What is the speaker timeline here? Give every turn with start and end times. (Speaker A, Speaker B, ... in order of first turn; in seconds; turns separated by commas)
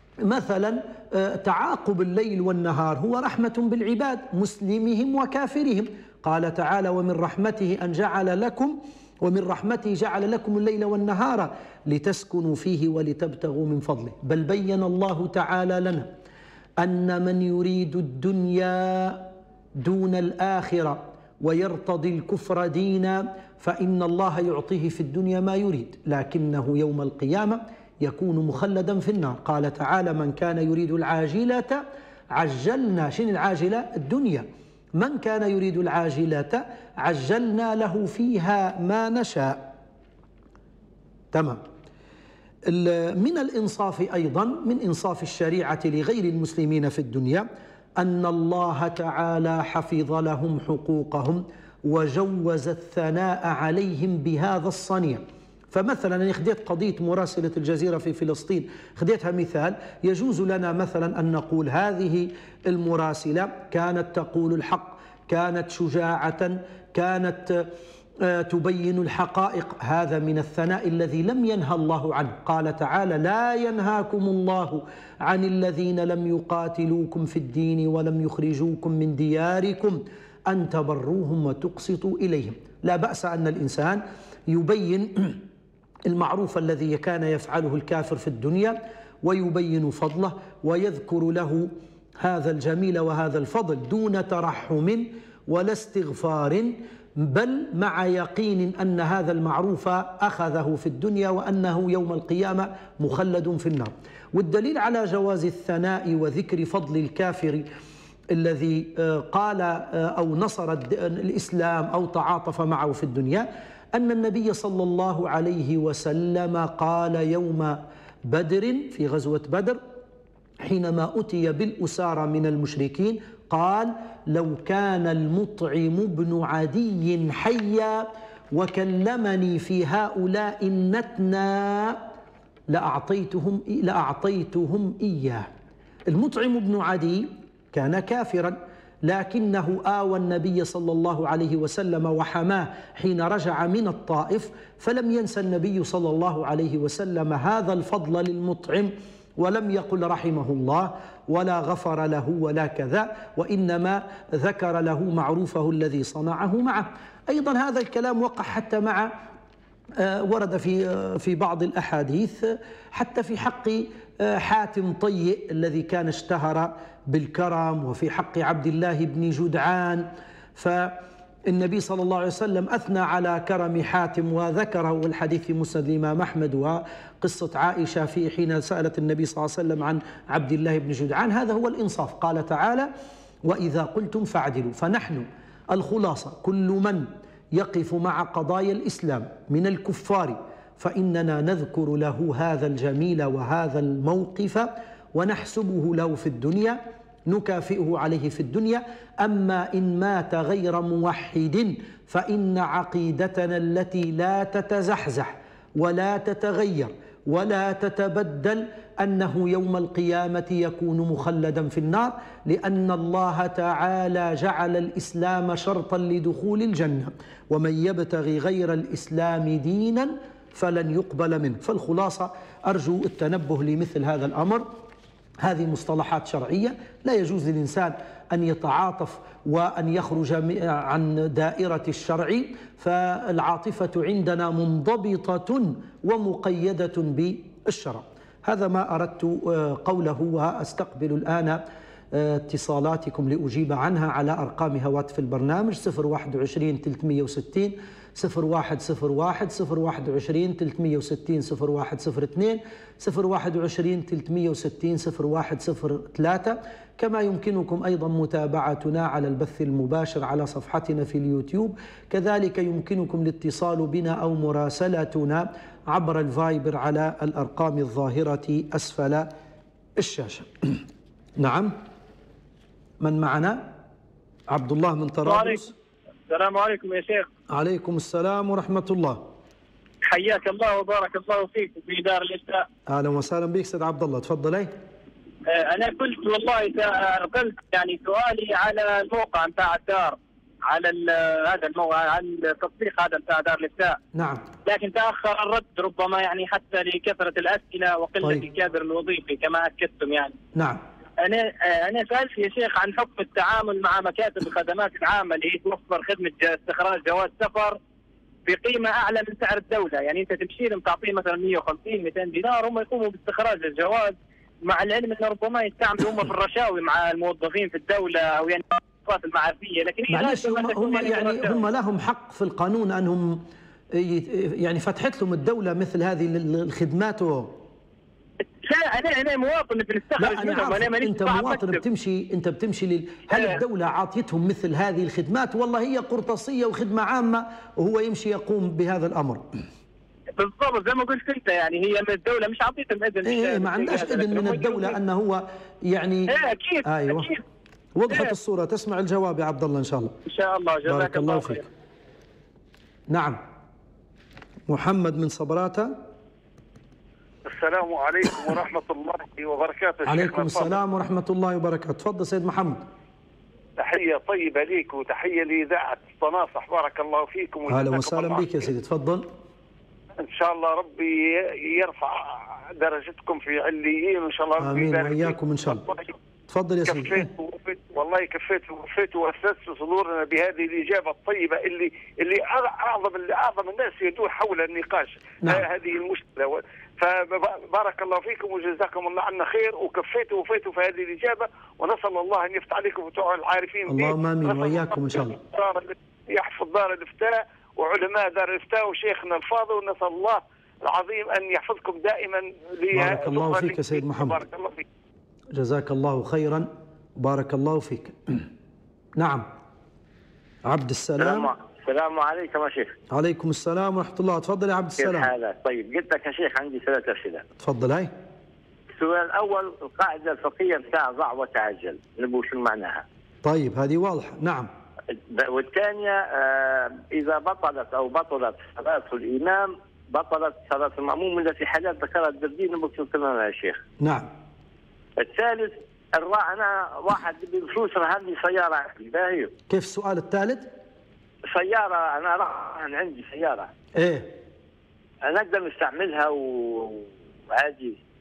Speaker A: 0.2-16.1, Speaker A: 16.8-39.7, Speaker A: 41.3-41.6, Speaker A: 42.7-47.5, Speaker A: 48.0-67.6, Speaker A: 68.2-85.4, Speaker A: 86.1-107.7, Speaker A: 108.3-119.8, Speaker A: 120.6-132.0, Speaker A: 132.7-135.5, Speaker A: 136.1-159.1, Speaker A: 160.0-170.9, Speaker A: 171.5-182.9, Speaker A: 183.4-224.7, Speaker A: 225.4-241.6, Speaker A: 242.1-269.3, Speaker A: 270.0-270.8, Speaker A: 271.4-271.8, Speaker A: 273.0-273.7, Speaker A: 274.5-275.7, Speaker B: 275.2-275.6, Speaker B: 276.3-277.3, Speaker A: 277.5-279.2, Speaker B: 280.1-282.7, Speaker A: 282.9-284.7, Speaker B: 285.5-294.0, Speaker A: 294.1-294.4, Speaker B: 294.7-300.4, Speaker A: 298.2-298.5, Speaker A: 300.6-300.8, Speaker B: 301.2-307.8, Speaker B: 308.5-314.2, Speaker B: 314.7-321.6, Speaker A: 320.1-323.4, Speaker A: 323.9-327.5, Speaker B: 328.6-331.8, Speaker A: 330.2-339.4, Speaker B: 333.3-333.6, Speaker B: 340.4-345.0, Speaker A: 343.2-346.3, Speaker B: 346.3-347.4, Speaker A: 346.8-347.3, Speaker A: 348.0-350.1, Speaker B: 350.3-351.6, Speaker A: 350.9-351.6, Speaker A: 353.1-353.4, Speaker A: 354.7-355.9, Speaker C: 357.4-360.8, Speaker A: 360.1-362.8, Speaker C: 363.8-368.5, Speaker A: 367.7-369.3, Speaker C: 370.2-376.1, Speaker A: 374.6-375.8, Speaker A: 376.5-377.3, Speaker C: 376.9-404.9, Speaker A: 393.9-395.4, Speaker A: 402.9-404.4, Speaker A: 405.6-408.4, Speaker A: 409.2-409.5, Speaker A: 410.6-411.5, Speaker D: 411.2-413.0, Speaker A: 413.1-415.3, Speaker D: 415.0-417.4, Speaker A: 417.6-418.1, Speaker D: 418.9-423.0, Speaker A: 423.4-424.7, Speaker D: 425.1-433.8, Speaker A: 434.0-434.3, Speaker D: 435.2-439.5, Speaker A: 439.7-440.7, Speaker D: 441.5-443.7, Speaker A: 444.0-444.3, Speaker D: 445.2-448.0